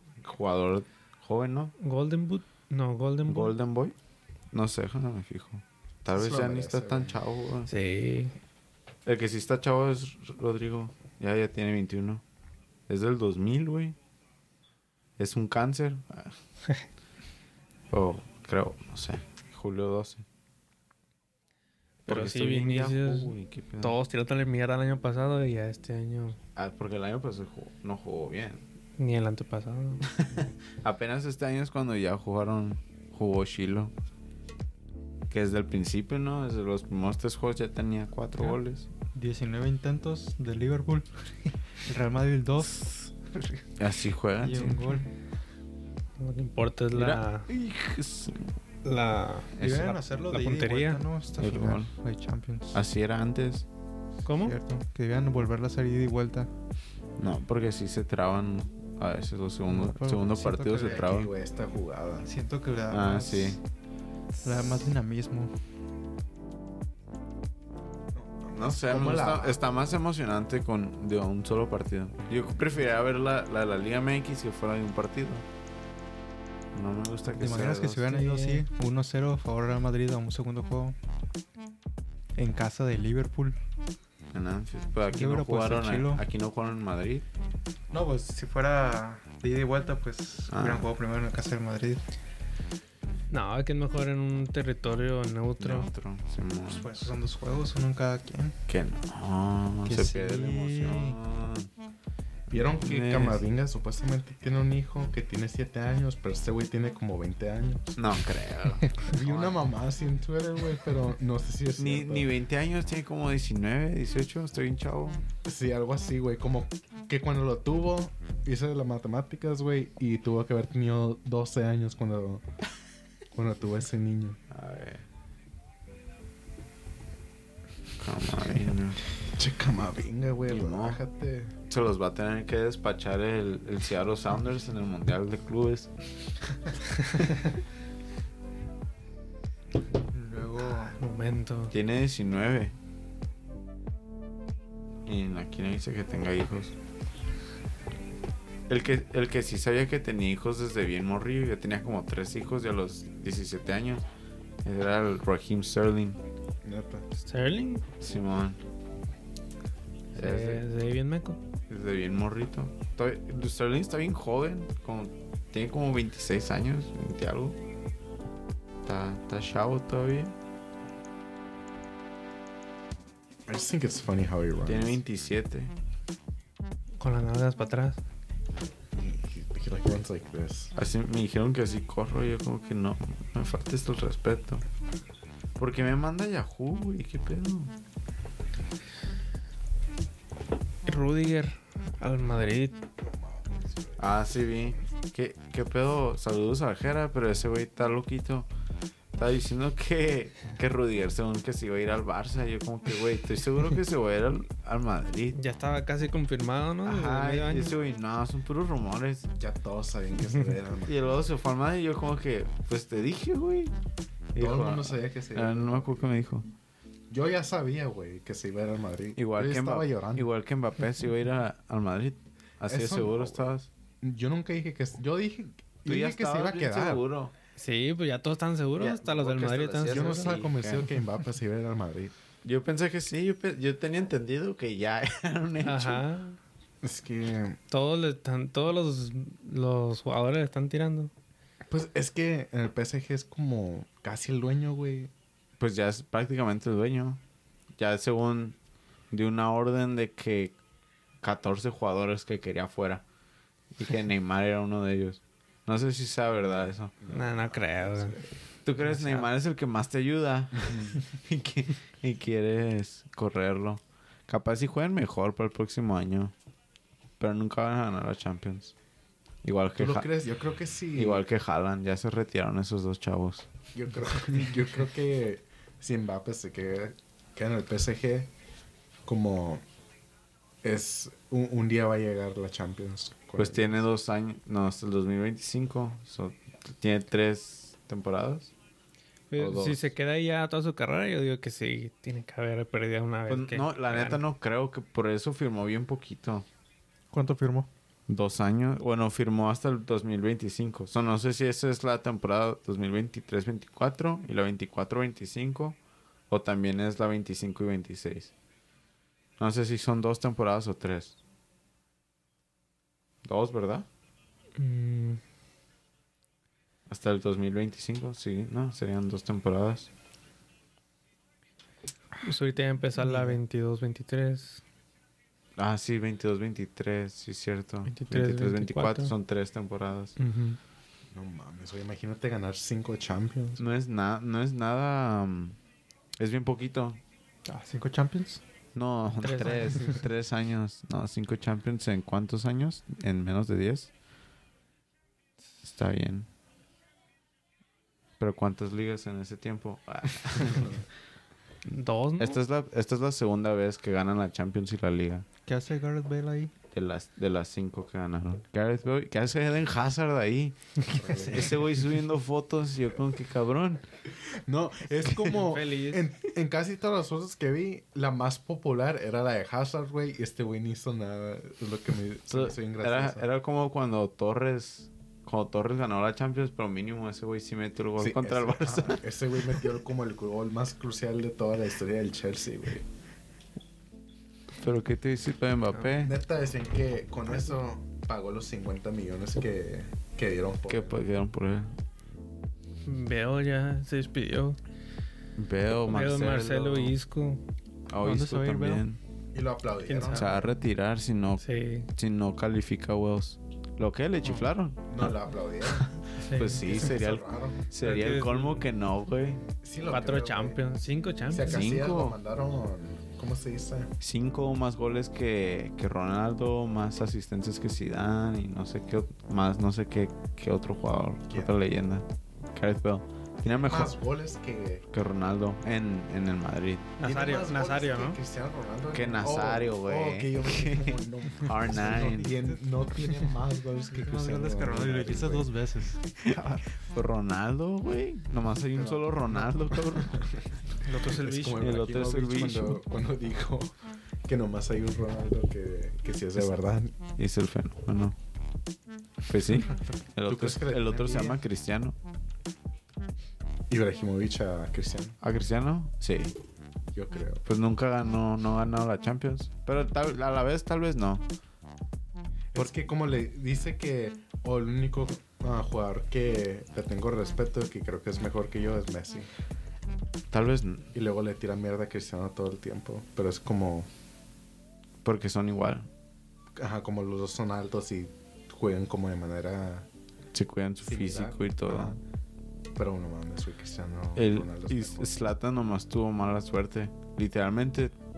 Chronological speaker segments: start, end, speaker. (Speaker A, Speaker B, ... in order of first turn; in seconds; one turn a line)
Speaker A: 0.2-1.7
Speaker B: 1.8-3.5
Speaker A: 3.3-4.0
Speaker A: 4.5-7.7
Speaker C: 6.1-7.2
Speaker B: 7.7-8.3
Speaker A: 9.1-12.2
Speaker A: 12.9-14.0
Speaker A: 15.2-16.4
Speaker A: 17.9-20.2
Speaker B: 22.1-26.4
Speaker A: 22.1-23.9
Speaker A: 26.6-28.6
Speaker B: 29.0-30.0
Speaker A: 30.0-33.9
Speaker A: 35.3-38.9
Speaker D: 39.1-43.6
Speaker A: 43.8-44.9
Speaker D: 44.4-45.1
Speaker B: 46.2-47.5
Speaker A: 46.9-48.5
Speaker B: 48.8-49.5
Speaker A: 49.6-50.0
Speaker D: 49.6-52.8
Speaker B: 50.3-51.0
Speaker A: 51.4-51.9
Speaker A: 52.7-53.6
Speaker B: 54.2-54.5
Speaker D: 54.3-56.5
Speaker A: 57.2-61.3
Speaker D: 59.7-61.1
Speaker C: 60.7-62.3
Speaker D: 62.2-63.6
Speaker A: 62.9-63.6
Speaker D: 64.4-65.5
Speaker C: 68.1-69.6
Speaker A: 68.5-75.5
Speaker A: 76.7-78.1
Speaker D: 77.3-81.0
Speaker B: 78.1-78.6
Speaker D: 82.3-83.6
Speaker A: 84.3-87.2
Speaker D: 85.1-86.2
Speaker D: 87.9-92.0
Speaker A: 90.5-90.9
Speaker B: 93.3-95.9
Speaker A: 95.6-97.1
Speaker D: 96.7-98.5
Speaker A: 98.7-101.7
Speaker D: 99.8-101.2
Speaker C: 102.5-108.0
Speaker A: 102.7-103.4
Speaker A: 108.0-109.6
Speaker C: 109.1-112.3
Speaker A: 111.8-115.2
Speaker C: 115.4-122.4
Speaker C: 123.3-124.4
Speaker A: 124.5-125.0
Speaker A: 128.0-129.0
Speaker C: 129.3-131.5
Speaker A: 130.5-131.0
Speaker A: 131.7-135.9
Speaker D: 140.1-141.0
Speaker B: 140.8-141.7
Speaker A: 141.7-142.7
Speaker A: 145.1-146.8
Speaker A: 148.7-154.1
Speaker A: 154.6-156.2
Speaker C: 156.6-157.1
Speaker B: 157.2-157.8
Speaker A: 158.0-158.6
Speaker A: 160.1-160.6
Speaker B: 160.1-161.4
Speaker A: 161.7-167.6
Speaker A: 168.8-170.3
Speaker C: 173.5-175.0
Speaker A: 174.7-175.7
Speaker B: 177.0-178.0
Speaker C: 178.9-180.7
Speaker A: 180.7-184.6
Speaker A: 185.6-187.7
Speaker B: 190.8-192.8
Speaker C: 193.0-194.0
Speaker A: 194.0-198.5
Speaker A: 199.1-205.3
Speaker B: 205.3-207.8
Speaker A: 206.8-209.3
Speaker C: 209.3-211.1
Speaker A: 210.8-213.7
Speaker A: 214.3-216.5
Speaker C: 214.3-216.1
Speaker C: 217.1-220.3
Speaker A: 219.2-223.7
Speaker C: 222.7-223.5
Speaker C: 224.0-227.0
Speaker A: 225.8-227.3
Speaker B: 227.6-230.5
Speaker A: 228.8-230.9
Speaker C: 229.8-232.1
Speaker A: 232.4-236.0
Speaker B: 235.6-236.4
Speaker C: 236.8-237.6
Speaker B: 237.7-241.1
Speaker C: 241.7-245.1
Speaker A: 245.6-247.2
Speaker A: 247.8-248.6
Speaker A: 249.1-250.6
Speaker A: 251.2-253.0
Speaker A: 253.7-256.9
Speaker C: 256.4-258.3
Speaker B: 257.1-258.2
Speaker A: 258.6-266.3
Speaker B: 259.0-259.2
Speaker C: 260.6-261.0
Speaker A: 267.2-268.7
Speaker A: 269.4-270.1
Speaker C: 269.7-271.2
Speaker A: 270.9-273.5
Speaker C: 273.7-278.3
Speaker C: 279.1-279.6
Speaker C: 280.6-283.8
Speaker A: 283.4-288.5
Speaker B: 289.3-294.2
Speaker A: 289.4-289.9
Speaker A: 293.3-296.5
Speaker D: 297.1-297.7
Speaker A: 298.1-305.8
Speaker A: 306.3-308.3
Speaker A: 309.4-311.2
Speaker A: 313.2-313.9
Speaker B: 314.6-315.2
Speaker A: 316.9-319.9
Speaker B: 322.2-324.6
Speaker D: 323.0-323.4
Speaker A: 325.6-330.1
Speaker B: 327.9-329.1
Speaker B: 330.2-330.6
Speaker C: 331.1-333.6
Speaker A: 333.6-335.6
Speaker A: 336.2-337.0
Speaker D: 337.4-338.4
Speaker A: 338.7-343.9
Speaker B: 339.2-340.0
Speaker A: 345.6-346.3
Speaker A: 348.2-350.8
Speaker B: 351.6-352.4
Speaker A: 352.2-355.2
Speaker D: 355.4-356.5
Speaker A: 356.7-363.8
Speaker C: 360.9-361.6
Speaker C: 364.2-373.2
Speaker B: 365.2-366.1
Speaker A: 372.3-379.0
Speaker C: 378.0-382.9
Speaker A: 384.6-386.1
Speaker C: 386.0-391.0
Speaker A: 390.7-391.7
Speaker B: 392.8-394.6
Speaker A: 395.4-396.9
Speaker B: 395.8-397.4
Speaker A: 397.9-399.0
Speaker D: 398.0-398.8
Speaker C: 399.3-400.5
Speaker B: 399.8-400.3
Speaker A: 400.0-401.4
Speaker B: 401.4-401.9
Speaker A: 401.9-409.4
Speaker D: 404.2-404.5
Speaker C: 404.9-407.7
Speaker D: 406.2-406.9
Speaker B: 407.8-408.7
Speaker C: 409.4-410.6
Speaker B: 409.9-411.8
Speaker C: 411.3-413.9
Speaker A: 411.4-412.1
Speaker A: 414.0-424.0
Speaker C: 421.3-421.5
Speaker C: 423.7-424.8
Speaker A: 424.9-426.9
Speaker B: 427.0-428.2
Speaker C: 427.0-435.8
Speaker A: 428.9-432.4
Speaker D: 433.9-436.1
Speaker A: 436.2-440.3
Speaker D: 438.9-439.7
Speaker C: 440.0-440.4
Speaker B: 440.8-441.7
Speaker C: 441.0-446.9
Speaker A: 441.1-442.8
Speaker A: 447.2-448.1
Speaker A: 449.3-452.0
Speaker C: 450.2-451.4
Speaker C: 453.7-455.2
Speaker A: 455.2-456.3
Speaker C: 456.9-457.4
Speaker A: 457.4-461.2
Speaker C: 462.5-469.3
Speaker A: 470.3-470.9
Speaker C: 470.9-473.9
Speaker A: 475.0-475.9
Speaker C: 476.6-479.9
Speaker A: 480.3-482.0
Speaker C: 480.8-482.0
Speaker C: 482.8-485.1
Speaker A: 484.1-487.9